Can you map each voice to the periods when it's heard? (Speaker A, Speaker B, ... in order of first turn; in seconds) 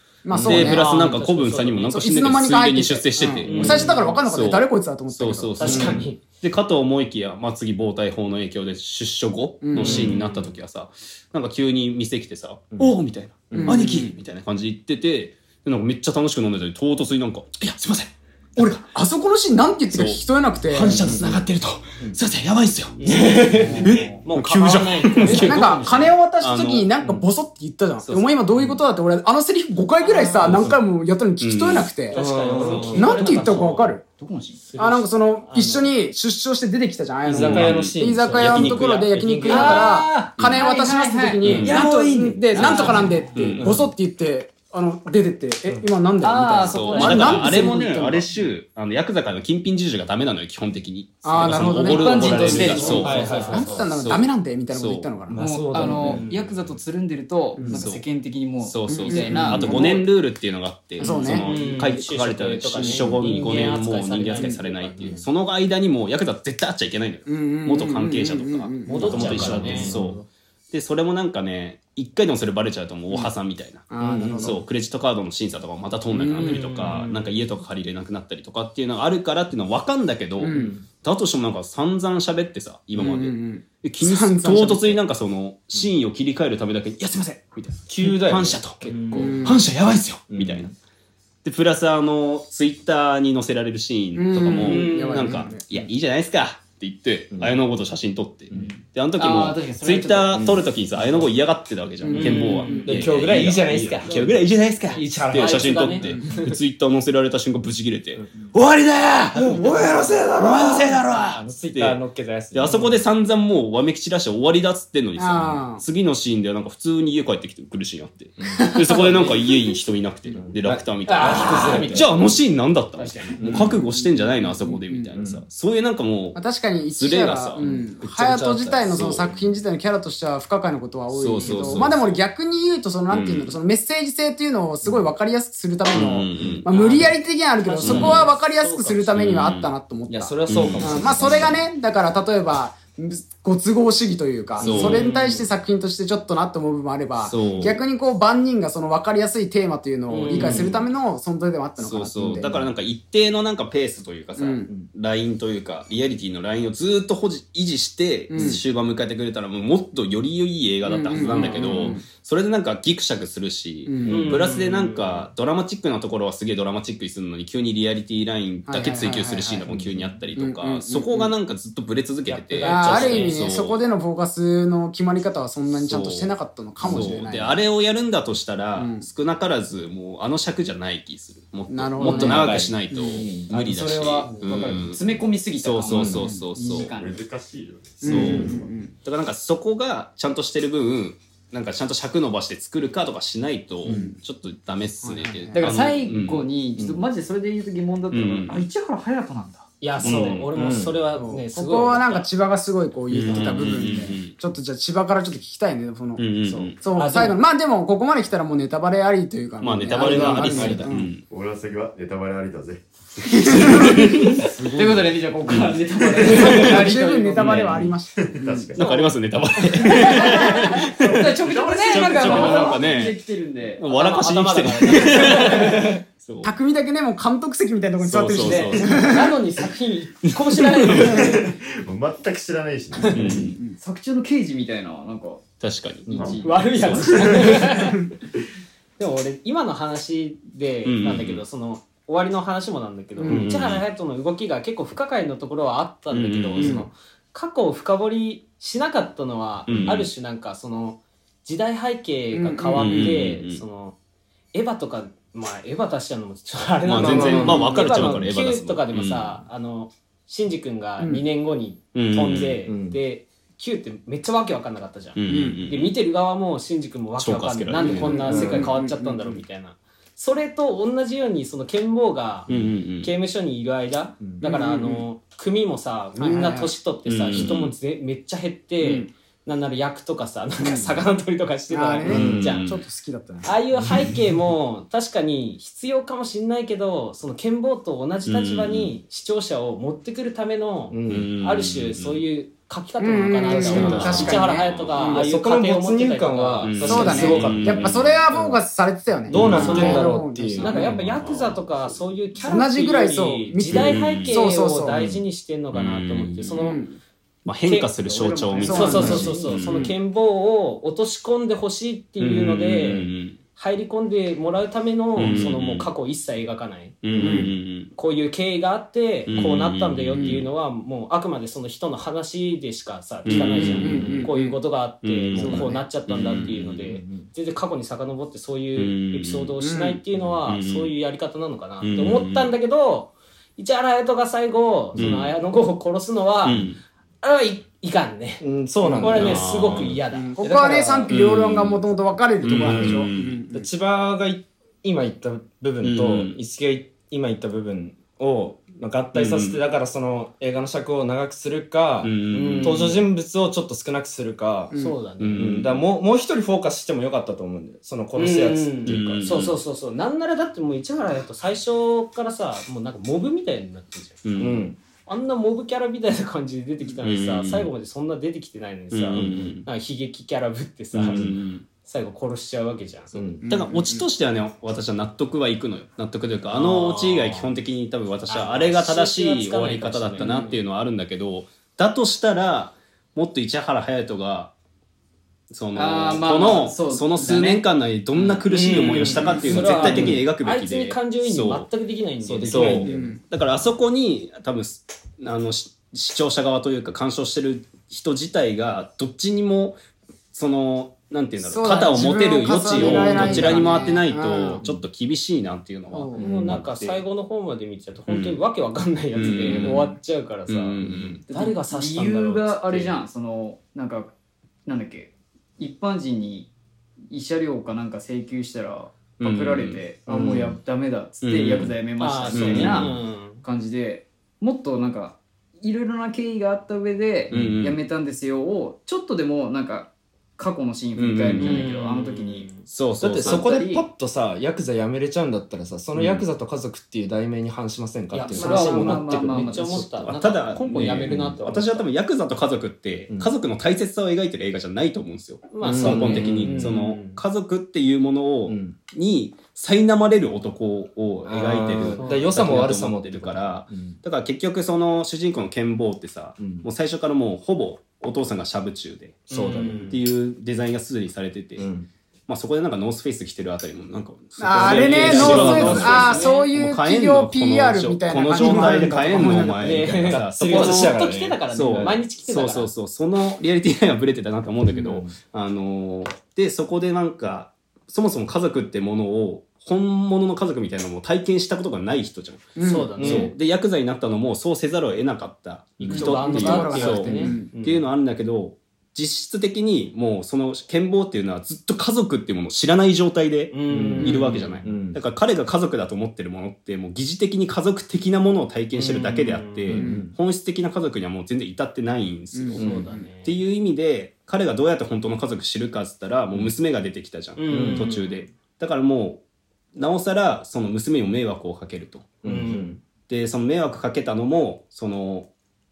Speaker A: 0.2-0.9, 1.8-6.0, 9.6-10.2, 13.5-14.1, 18.6-21.3, 25.2-32.2, 32.9-34.0, 34.8-48.3, 51.2-55.4, 57.5-57.8, 58.9-60.1, 61.0-61.5, 62.8-63.1, 67.2-69.9, 73.9-74.6, 76.1-76.6, 80.4-80.7, 83.0-85.0, 89.1-89.6, 94.1-95.6, 102.0-102.9, 115.2-115.8, 118.6-119.4, 124.7-125.1, 126.3-152.5, 154.4-154.7, 158.3-158.6, 160.8-162.0, 163.8-164.3, 168.7-169.7, 170.3-171.3, 172.6-177.6, 178.8-179.1, 181.7-183.2, 188.0-188.9, 193.8-194.2, 195.0-195.8, 201.1-211.1, 213.4-214.5, 216.3-218.7, 226.4-229.3, 243.2-243.5, 246.6-246.9, 252.3-253.1, 261.0-261.2, 265.3-265.6, 267.8-269.4, 274.4-275.1, 276.1-276.7, 278.8-279.1, 280.6-281.0, 281.7-283.5, 293.0-295.2, 296.8-300.9, 302.4-305.0, 306.5-307.0, 308.6-309.9, 317.2-317.5, 323.4-324.6, 325.4-325.8, 329.6-330.0, 340.1-343.7, 373.4-374.1, 389.2-389.6, 392.8-393.2, 401.4-404.6, 405.9-406.2, 464.4-469.9, 482.6-483.0, 485.9-487.5, 499.7-500.1, 502.3-503.1
Speaker B: 0.3-18.8, 19.9-26.9, 28.0-28.3, 31.4-31.9, 37.3-39.1, 40.4-40.7, 41.4-41.8, 43.3-43.9, 46.6-55.1, 57.6-58.0, 58.6-90.7, 91.4-112.0, 112.5-129.3, 131.1-132.1, 133.1-133.5, 135.9-136.7, 137.8-138.3, 139.1-139.7, 140.5-141.5, 144.6-145.0, 147.2-147.8, 150.3-150.8, 151.8-173.8, 175.7-186.9, 188.0-196.5, 198.1-198.6, 200.0-200.5, 203.1-204.4, 206.2-206.8, 209.6-211.2, 213.2-216.9, 218.8-223.2, 223.8-226.5, 228.0-229.3, 230.3-231.3, 233.1-233.6, 235.6-236.4, 240.8-241.4, 243.2-243.8, 246.1-246.9, 249.7-250.1, 252.8-253.6, 256.9-259.4, 261.9-262.6, 265.1-265.9, 267.2-268.3, 272.5-273.1, 277.1-277.7, 282.0-282.8, 288.2-288.9, 291.1-292.2, 293.6-295.0, 296.6-298.1, 299.3-299.9, 300.7-301.6, 303.6-304.4, 305.7-306.6, 307.4-309.9, 312.2-313.4, 315.1-315.9, 317.0-317.9, 319.3-320.4, 323.2-324.3, 325.0-326.8, 328.8-329.5, 330.4-330.9, 331.8-332.5, 334.9-335.3, 336.4-336.8, 339.0-340.0, 341.1-341.8, 342.4-343.4, 345.8-346.4, 349.1-349.6, 352.0-353.1, 355.2-355.9, 358.9-359.6, 364.2-364.7, 367.0-367.7, 368.9-369.7, 370.9-371.6, 373.5-384.5, 385.5-391.7, 392.5-399.8, 400.3-407.0, 408.1-408.4, 409.1-409.9, 410.5-411.2, 419.2-420.5, 421.2-421.8, 422.3-423.0, 427.3-427.8, 430.9-431.6, 432.6-433.5, 435.9-436.2, 440.0-461.7, 462.3-509.2, 509.7-512.2, 513.1-515.3
Speaker C: 0.4-2.0, 3.2-4.2, 5.6-6.2, 9.8-10.5, 23.0-26.1, 30.0-30.6, 32.1-34.0, 34.6-35.9, 39.5-40.4, 42.6-43.1, 46.9-47.4, 52.4-53.9, 55.8-56.5, 61.2-65.2, 68.8-70.0, 76.4-77.3, 88.8-89.3, 94.5-95.5, 102.1-103.0, 103.7-104.3, 105.0-106.4, 121.0-122.2, 123.0-123.6, 136.7-139.2, 144.6-145.5, 150.1-150.7, 164.1-165.3, 172.3-173.4, 184.2-184.7, 199.8-202.3, 206.9-207.4, 218.8-220.5, 222.2-222.7, 223.8-225.9, 228.4-231.5, 233.1-233.3, 236.4-238.1, 239.0-253.9, 254.5-282.7, 283.4-297.4, 299.4-306.8, 307.6-307.9, 308.6-317.0, 317.9-336.6, 337.2-338.4, 339.0-340.3, 352.3-353.0, 354.7-355.5, 358.1-364.2, 365.1-373.4, 376.5-377.6, 378.3-380.6, 388.2-392.9, 402.7-403.9, 406.1-410.8, 411.3-413.0, 422.0-423.4, 431.4-432.7, 438.1-441.8, 445.5-447.2, 451.9-452.5, 459.3-460.0, 464.7-466.5, 469.2-472.7, 482.6-483.3, 485.8-487.9, 493.5-494.6, 498.7-499.8, 502.6-503.4, 507.4-508.2, 512.2-512.8
Speaker D: 3.6-3.9, 9.8-10.2, 13.5-13.8, 20.9-21.4, 23.1-24.0, 30.4-30.8, 32.1-33.3, 37.2-40.1, 43.5-43.9, 52.3-53.8, 55.3-56.2, 63.1-63.7, 69.0-70.2, 74.0-74.6, 80.5-80.8, 87.9-89.6, 90.3-90.7, 98.5-98.8, 100.3-101.2, 102.1-104.4, 104.9-106.3, 108.2-108.5, 109.3-113.0, 118.4-119.3, 120.3-122.1, 123.4-123.9, 125.1-125.4, 127.6-127.9, 140.1-141.6, 144.6-145.0, 152.4-152.7, 169.7-170.1, 176.9-177.2, 182.0-183.5, 185.9-186.2, 193.8-194.1, 200.0-201.0, 203.2-203.8, 209.9-211.0, 257.0-258.3, 262.6-263.0, 268.2-268.7, 282.1-282.5, 290.9-291.3, 293.5-294.4, 295.0-298.6, 299.2-301.3, 304.9-305.2, 308.8-309.4, 317.1-317.5, 323.8-324.2, 326.8-327.3, 338.4-339.9, 342.5-354.7, 355.3-359.2, 364.4-364.8, 369.1-369.6, 371.1-371.4, 373.1-373.5, 389.0-390.2, 392.2-393.1, 403.0-403.5, 406.2-406.6, 409.3-409.9, 410.8-411.2, 420.1-420.6, 427.3-427.6, 433.0-440.0, 440.6-441.4, 445.6-446.8, 448.5-448.8, 451.2-454.0, 456.4-456.7, 459.3-460.0, 461.6-461.9, 464.8-466.2, 468.6-472.0, 474.7-475.2, 483.0-483.3, 493.7-495.0, 499.7-500.1, 502.6-502.9, 507.5-507.9, 512.2-512.8
Speaker E: 33.2-33.6, 34.2-34.6, 40.5-43.4, 46.2-47.9, 51.7-53.5, 55.4-60.0, 98.6-100.6, 183.5-187.2, 195.5-199.7, 213.6-217.9, 219.8-223.8, 233.8-235.4, 236.1-237.4, 308.5-308.8, 340.4-341.1, 385.7-387.6, 411.3-414.1, 414.6-416.5, 417.1-432.5, 433.2-433.9, 438.3-439.9
Speaker F: 186.9-188.7, 211.3-213.5, 214.3-215.1, 218.2-219.1, 221.4-222.8, 231.1-233.6, 236.1-237.7